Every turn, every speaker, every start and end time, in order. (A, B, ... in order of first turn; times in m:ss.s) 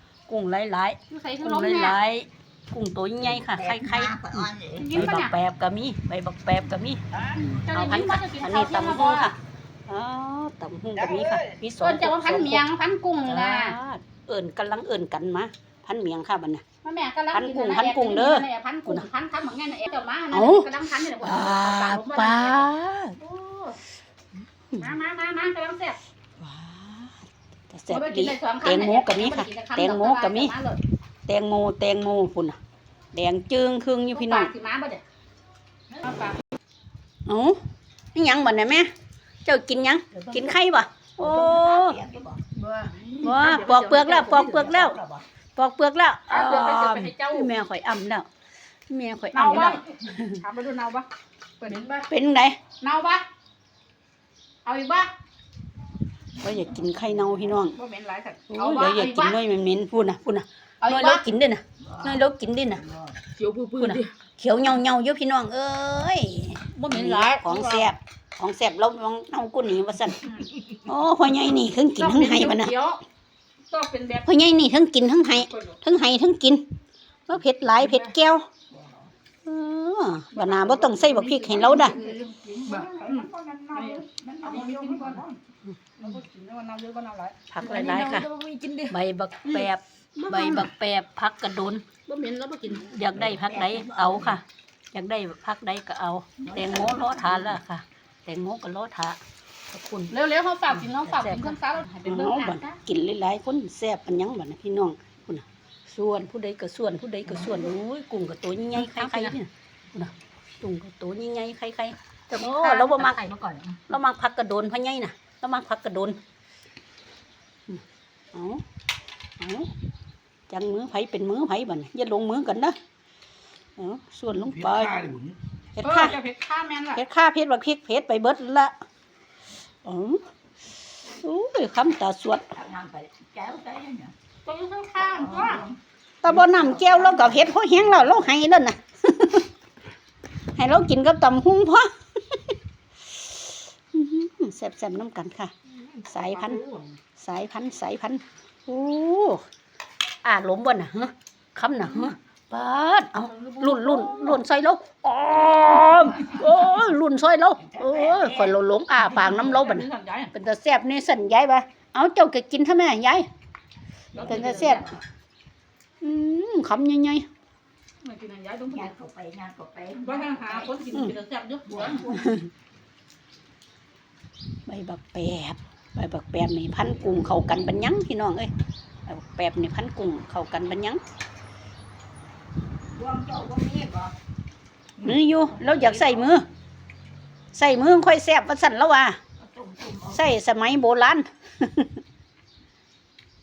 0:00.3-0:12.6 A
0:01.1-0:02.0 B
0:03.4-0:04.9 C
0:04.7-0:05.3 B
0:07.4-0:09.3 B
0:11.8-0:13.8 B
0:13.2-0:16.6 A
0:16.8-0:23.8 B
0:17.3-0:19.1 A
0:20.3-0:23.2 A
0:24.8-0:26.0 B
0:26.4-0:27.1 A
0:27.7-0:30.5 A
0:27.9-0:30.8 B
0:31.3-0:32.6 A
0:33.1-0:34.5 A
0:34.1-0:35.0 B
0:35.9-0:36.4 B
0:37.2-0:37.6 A
0:38.1-0:38.9 A
0:39.4-0:42.0 A
0:40.2-0:40.5 C
0:41.2-0:42.4 C
0:42.5-0:44.7 B
0:43.2-0:45.0 A
0:44.2-0:45.2 C
0:45.5-0:48.3 A
0:46.3-0:47.5 B
0:48.9-0:50.4 A
0:49.3-0:51.1 B
0:51.6-0:52.1 B
0:52.1-0:52.6 A
0:52.8-0:53.2 B
0:54.6-0:55.1 B
0:56.4-0:57.8 A
0:57.7-0:59.4 B
0:58.5-1:02.9 A
1:00.8-1:01.2 B
1:02.9-1:03.2 C
1:03.3-1:04.1 B
1:03.8-1:12.7 A
1:06.7-1:07.9 B
1:12.0-1:13.0 B
1:13.7-1:14.2 B
1:14.2-1:16.6 A
1:15.3-1:15.8 B
1:17.3-1:18.4 A
1:18.7-1:19.1 C
1:19.4-1:22.0 A
1:20.3-1:25.4 B
1:21.7-1:25.3 C
1:26.0-1:28.2 B
1:27.5-1:28.3 A
1:27.6-1:29.0 C
1:28.9-1:31.9 A
1:29.5-1:30.7 B
1:32.0-1:32.9 B
1:32.7-1:39.2 A
1:33.2-1:34.4 C
1:36.4-1:37.6 C
1:39.7-1:40.1 A
1:40.1-1:42.8 B
1:40.7-1:53.2 A
1:48.8-1:49.4 B
1:52.4-1:53.3 B
1:53.1-1:53.8 C
1:53.9-1:56.2 A
1:58.3-1:58.6 A
1:59.4-1:59.7 A
2:00.5-2:02.8 A
2:03.8-2:06.2 A
2:05.8-2:07.0 B
2:06.9-2:08.7 A
2:09.8-2:10.2 A
2:11.1-2:12.5 A
2:12.5-2:14.1 C
2:14.4-2:15.7 B
2:15.0-2:15.8 C
2:16.2-2:19.5 A
2:16.4-2:17.3 C
2:20.5-2:22.4 A
2:23.1-2:26.6 A
2:26.4-2:26.7 B
2:27.2-2:29.4 A
2:30.2-2:43.3 A
2:33.2-2:34.4 B
2:37.6-2:38.5 C
2:39.1-2:40.3 B
2:44.1-2:45.0 C
2:44.2-2:45.0 A
2:46.0-2:47.3 A
2:48.0-2:48.9 B
2:48.7-2:50.7 C
2:50.0-2:52.2 B
2:51.6-2:52.3 C
2:52.1-2:52.5 A
2:54.7-2:58.5 A
2:59.0-3:01.0 A
3:02.9-3:04.1 C
3:05.0-3:06.5 A
3:05.7-3:06.2 C
3:07.5-3:09.2 A
3:09.4-3:10.2 C
3:10.0-3:12.0 A